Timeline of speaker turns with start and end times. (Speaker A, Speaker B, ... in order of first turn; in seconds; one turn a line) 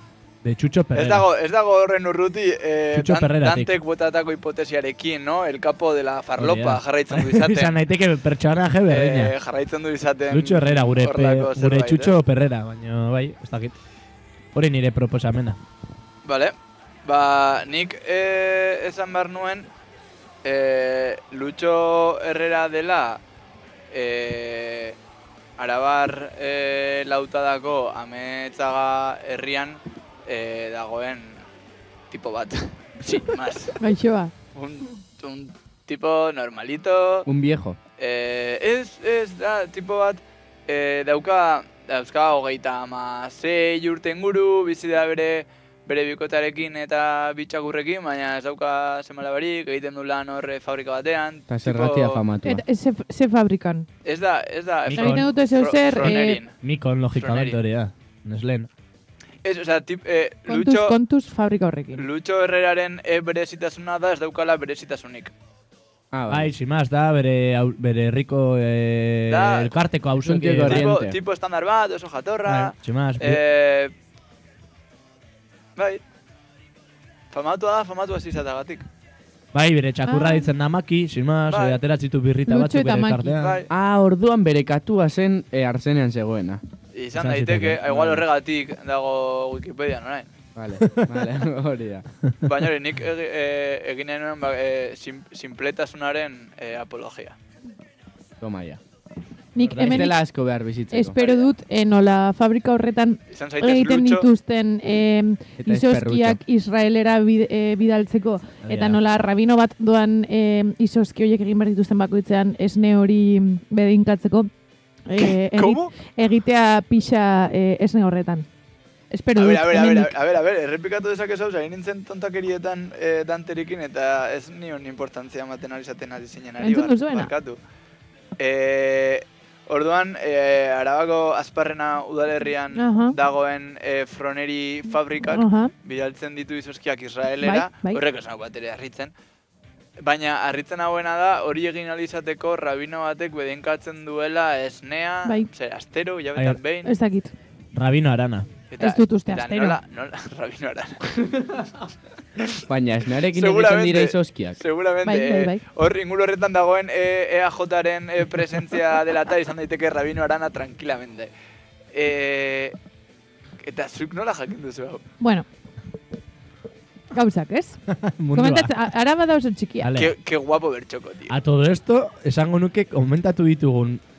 Speaker A: 0.4-1.2
Speaker B: 0.9-7.7
Speaker A: 2.9-3.7
Speaker A: 6.4-9.3
Speaker B: 8.9-12.2
Speaker A: 10.3-13.8
Speaker A: 14.6-15.6
Speaker B: 16.2-19.7
Speaker B: 20.4-23.2
Speaker B: 23.9-25.0
Speaker B: 25.6-31.4
Speaker B: 32.1-33.8
Speaker C: 33.8-34.3
Speaker B: 34.5-37.3
Speaker D: 37.3-37.8
Speaker B: 38.0-52.2
Speaker D: 51.5-52.6
Speaker C: 52.4-53.9
Speaker B: 54.0-56.5
Speaker A: 54.9-55.3
Speaker C: 54.9-56.4
Speaker A: 56.6-58.7
Speaker B: 57.2-57.6
Speaker B: 59.4-61.0
Speaker C: 60.5-62.0
Speaker B: 62.0-65.3
Speaker D: 66.1-66.5
Speaker A: 66.3-70.9
Speaker B: 69.3-69.7
Speaker D: 70.2-71.2
Speaker B: 70.7-73.9
Speaker A: 72.5-73.4
Speaker B: 77.3-78.9
Speaker A: 79.5-83.6
Speaker C: 80.1-80.5
Speaker B: 81.5-81.8
Speaker C: 82.5-83.4
Speaker B: 83.4-83.7
Speaker D: 83.7-86.6
Speaker B: 86.9-90.3
Speaker A: 87.2-88.2
Speaker D: 90.5-92.1
Speaker B: 92.5-97.4
Speaker D: 98.4-98.8
Speaker C: 99.5-100.2
Speaker A: 99.6-100.1
Speaker D: 99.8-101.2
Speaker C: 100.9-114.5
Speaker B: 101.2-101.5
Speaker B: 103.3-104.3
Speaker D: 105.6-106.4
Speaker A: 108.6-109.0
Speaker C: 115.1-118.5
Speaker B: 115.5-115.9
Speaker C: 119.1-120.1
Speaker B: 119.4-127.6
Speaker C: 126.6-127.3
Speaker B: 128.4-139.1
Speaker C: 132.8-133.2
Speaker C: 135.3-135.7
Speaker C: 137.4-138.0
Speaker B: 140.0-146.9
Speaker C: 146.8-147.3
Speaker A: 147.8-148.5
Speaker B: 148.7-151.7
Speaker C: 148.8-149.8
Speaker D: 152.7-154.6
Speaker B: 153.3-161.3
Speaker C: 155.0-155.6
Speaker B: 161.9-162.8
Speaker B: 163.6-165.0
Speaker C: 165.2-165.5
Speaker C: 167.1-167.8
Speaker A: 167.9-168.7
Speaker C: 168.3-169.9
Speaker A: 169.8-170.1
Speaker B: 169.9-171.3
Speaker A: 171.3-174.0